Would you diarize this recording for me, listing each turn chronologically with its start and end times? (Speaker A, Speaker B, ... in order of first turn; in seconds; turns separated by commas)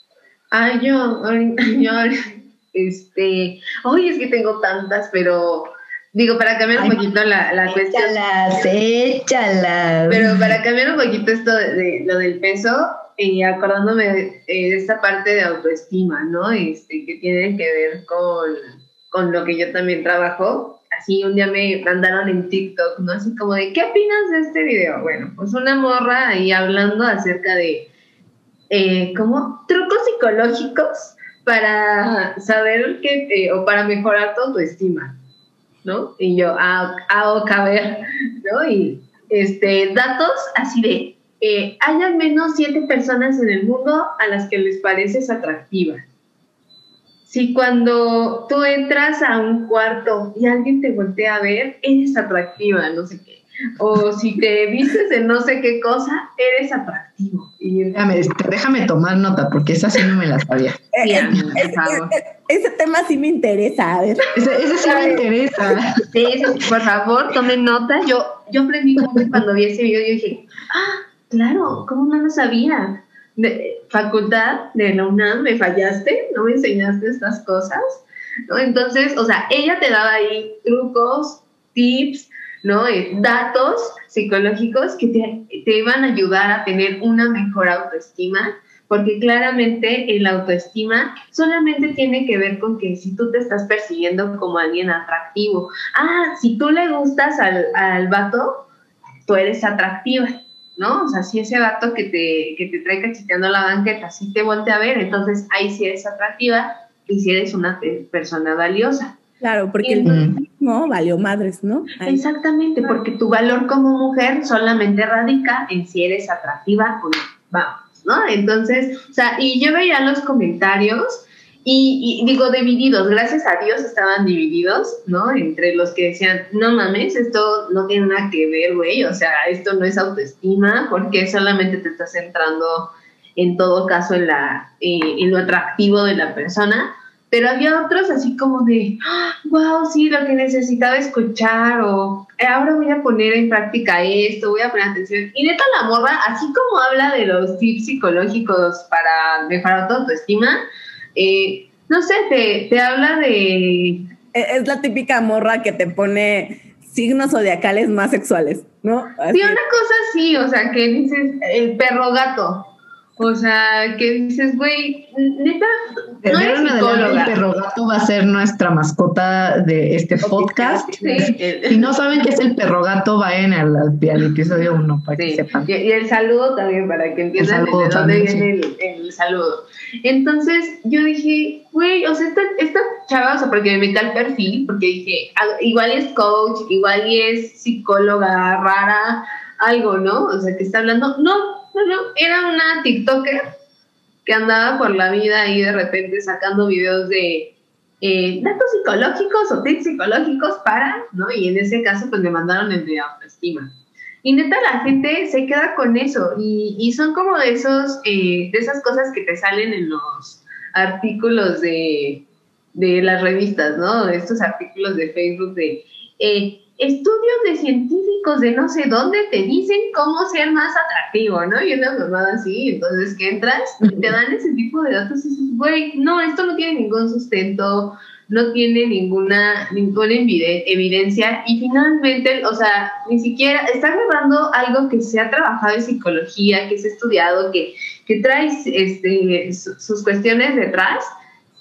Speaker A: 0.5-8.2, Speaker B: 6.7-7.0, Speaker B: 7.7-10.5, Speaker A: 10.1-27.9, Speaker A: 28.7-35.2, Speaker A: 35.8-46.0, Speaker A: 47.3-58.0, Speaker B: 57.9-60.8, Speaker C: 60.9-64.3, Speaker A: 61.0-62.2, Speaker B: 64.3-66.0, Speaker A: 64.8-65.2, Speaker A: 66.1-98.7, Speaker A: 99.2-109.2, Speaker C: 109.4-112.2, Speaker A: 109.8-110.2, Speaker B: 110.0-110.3, Speaker A: 112.0-150.6, Speaker A: 151.2-154.1, Speaker C: 154.3-159.6, Speaker A: 159.3-167.3, Speaker B: 166.2-175.7, Speaker C: 170.2-171.3, Speaker A: 171.0-171.9, Speaker A: 175.2-193.4, Speaker B: 177.4-178.4, Speaker A: 194.2-203.7, Speaker A: 204.2-241.1